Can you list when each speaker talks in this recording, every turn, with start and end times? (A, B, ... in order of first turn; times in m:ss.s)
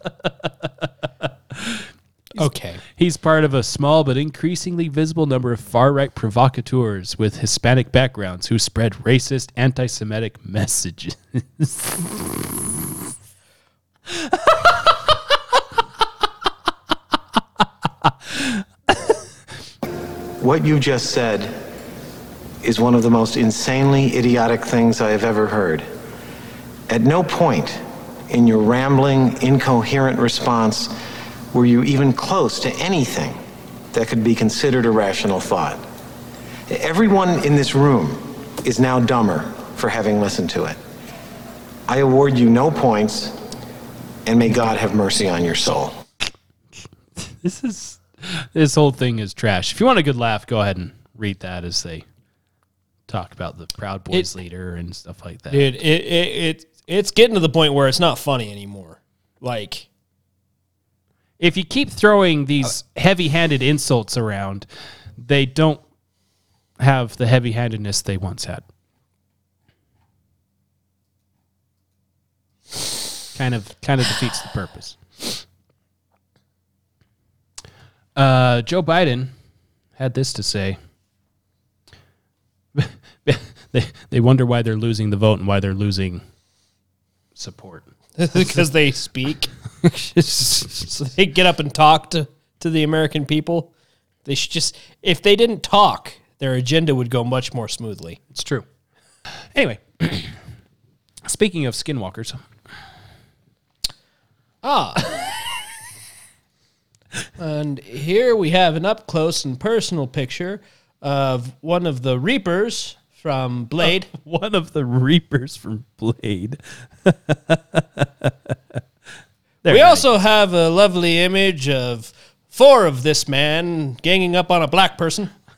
0:01.5-0:12.2 A
0:02.4-0:02.8 B
0:18.3-0:18.6 A
0:20.4-0:21.6 C
0:22.6-0:25.9 C
0:26.9-0:30.9 C
0:31.5-0:33.4 C
0:33.9-0:35.8 C
0:36.7-0:40.8 C
0:41.9-0:43.4 C
0:44.2-0:46.0 C
0:47.2-0:52.0 A
0:53.1-0:55.8 A
0:55.5-0:59.9 B
1:01.4-1:04.7 A
1:05.2-1:05.8 A
1:06.8-1:08.6 A
1:13.3-1:15.4 A
1:18.2-1:19.3 A
1:20.0-1:20.8 A
1:22.7-1:26.2 A
1:27.4-1:28.6 A
1:28.2-1:29.5 B
1:29.8-1:31.0 A
1:31.0-1:33.7 B
1:34.2-1:38.2 B
1:38.3-1:38.6 A
1:39.5-1:40.4 A
1:41.2-1:42.4 A
1:44.6-1:45.5 B
1:47.4-1:54.1 B
1:53.8-1:58.8 A
1:59.6-2:00.1 A
1:59.7-2:05.3 B